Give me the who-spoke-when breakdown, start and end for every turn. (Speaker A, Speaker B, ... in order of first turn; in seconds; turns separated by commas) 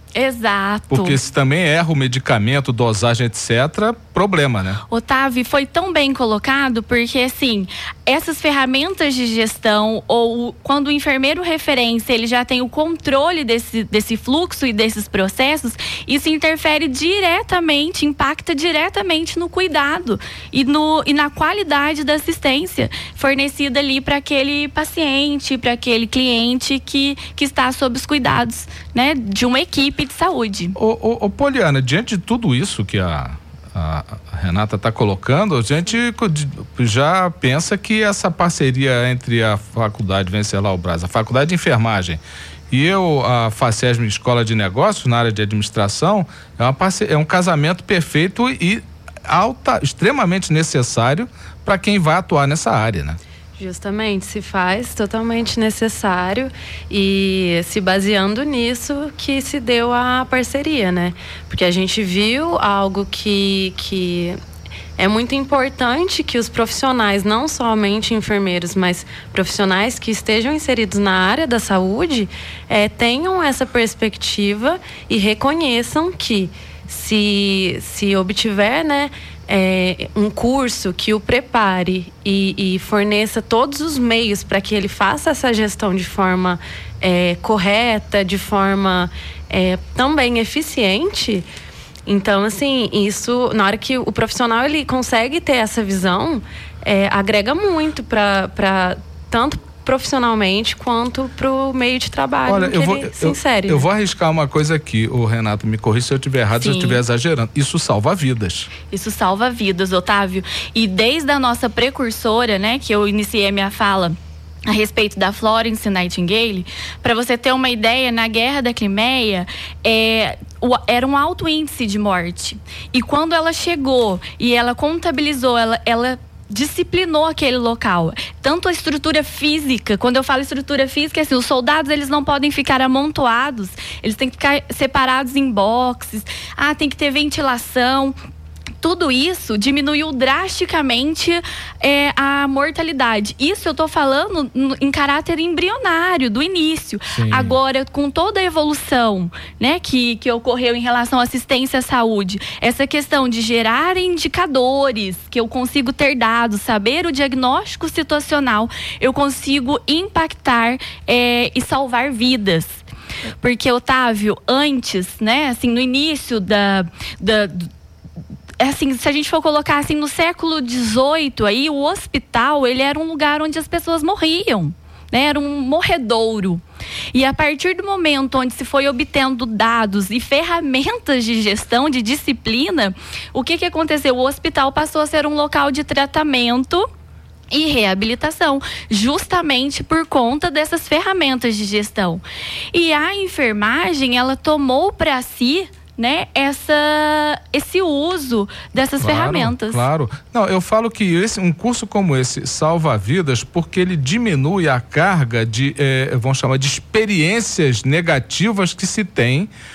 Speaker A: 0.1-1.2, Speaker B: 0.9-4.8, Speaker A: 4.9-30.7, Speaker B: 30.8-53.2, Speaker C: 53.6-64.4, Speaker C: 65.0-91.4, Speaker C: 92.1-103.8, Speaker B: 102.5-108.7, Speaker A: 106.6-107.0, Speaker A: 108.9-114.2, Speaker A: 114.7-138.1, Speaker A: 138.8-162.8, Speaker B: 147.1-147.6, Speaker A: 163.4-167.7, Speaker A: 168.6-186.9, Speaker A: 187.5-199.8, Speaker B: 199.0-209.5